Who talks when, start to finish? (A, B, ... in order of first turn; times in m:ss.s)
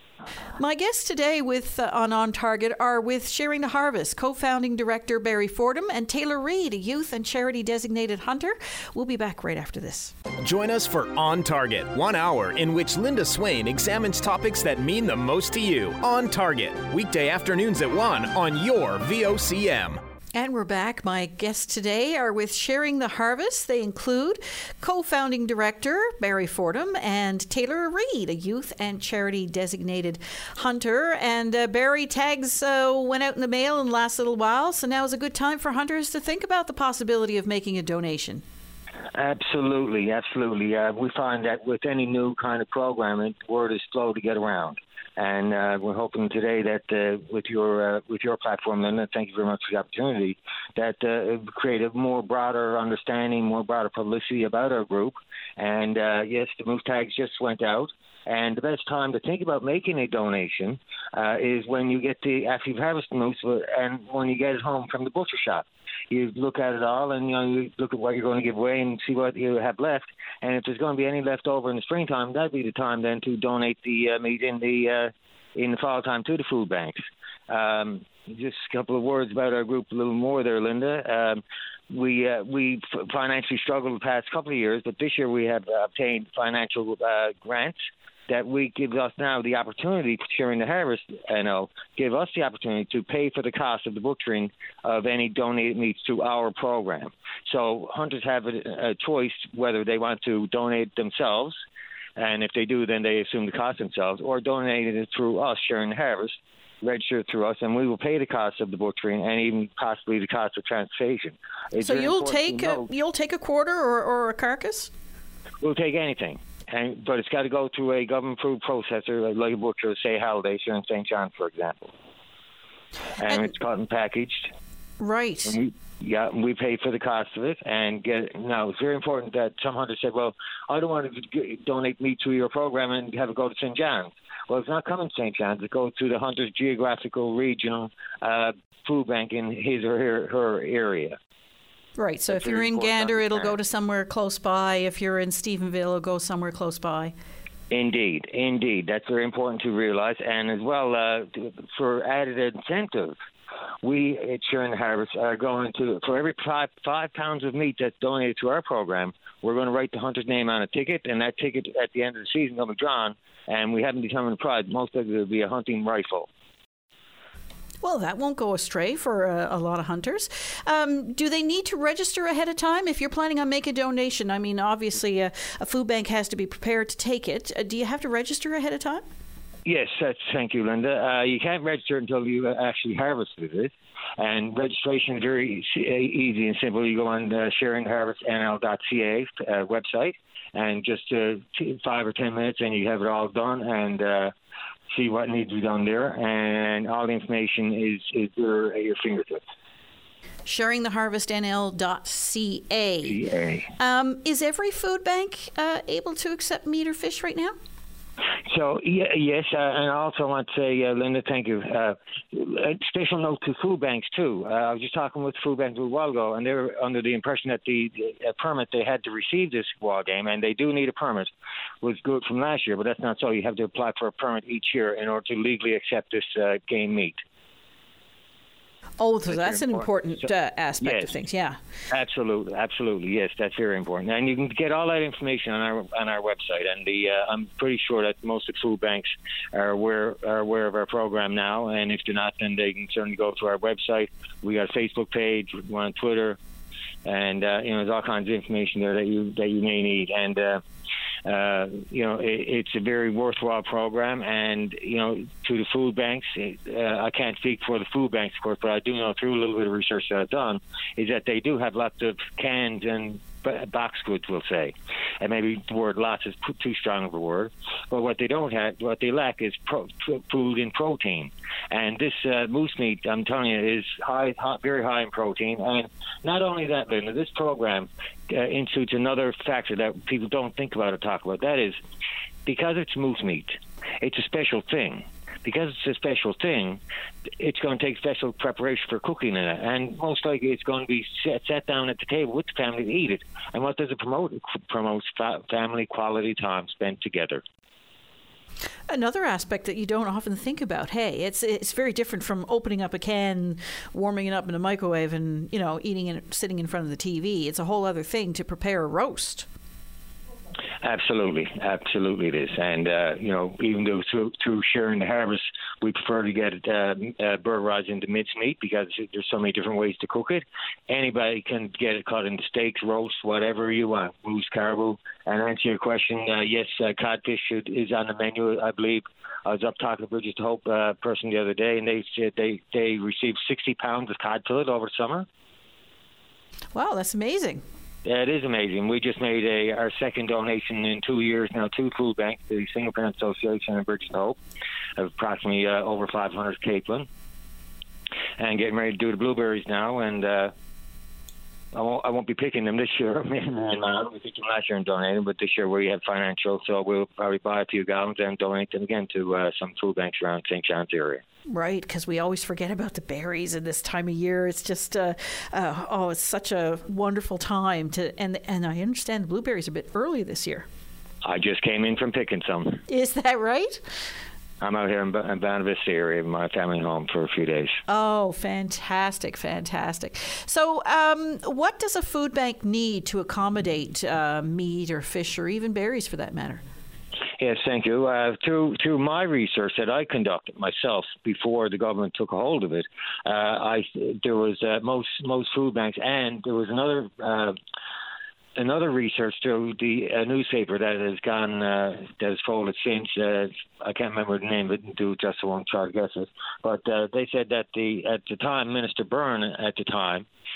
0:00.6-0:10.1 A
0:10.4-0:20.0 B
0:20.3-0:38.4 A
0:39.1-1:27.8 C
1:28.3-1:41.6 C
1:42.2-1:52.8 C
1:51.8-1:54.9 A
1:55.6-2:01.9 C
2:03.2-2:04.5 C
2:05.0-2:05.6 A
2:05.4-2:21.2 C
2:22.0-2:27.1 A
2:22.3-2:23.6 C
2:27.7-2:33.1 C
2:33.8-2:46.3 C
2:47.8-2:59.0 A
2:59.6-3:14.3 C
3:14.9-3:19.4 C
3:20.4-3:23.2 A
3:23.0-3:23.7 C
3:23.8-3:27.5 A
3:28.5-3:41.3 C
3:41.8-3:47.2 C
3:49.0-3:51.6 A
3:49.3-3:49.9 C
3:50.8-3:51.1 C
3:51.9-4:06.4 C
4:07.0-4:10.6 C
4:11.2-4:41.8 C
4:42.4-4:46.8 C
4:47.4-4:57.4 C
4:58.9-5:09.5 A
5:10.8-5:35.3 C
5:36.7-5:37.6 A
5:38.0-5:44.4 C
5:45.0-5:47.1 C
5:48.4-5:50.5 C
5:51.7-6:01.2 C
6:01.5-6:10.6 A
6:11.2-6:12.8 C
6:12.9-6:13.8 A
6:14.6-6:17.8 C
6:17.9-6:26.6 A
6:27.4-6:37.6 C
6:38.6-6:50.2 C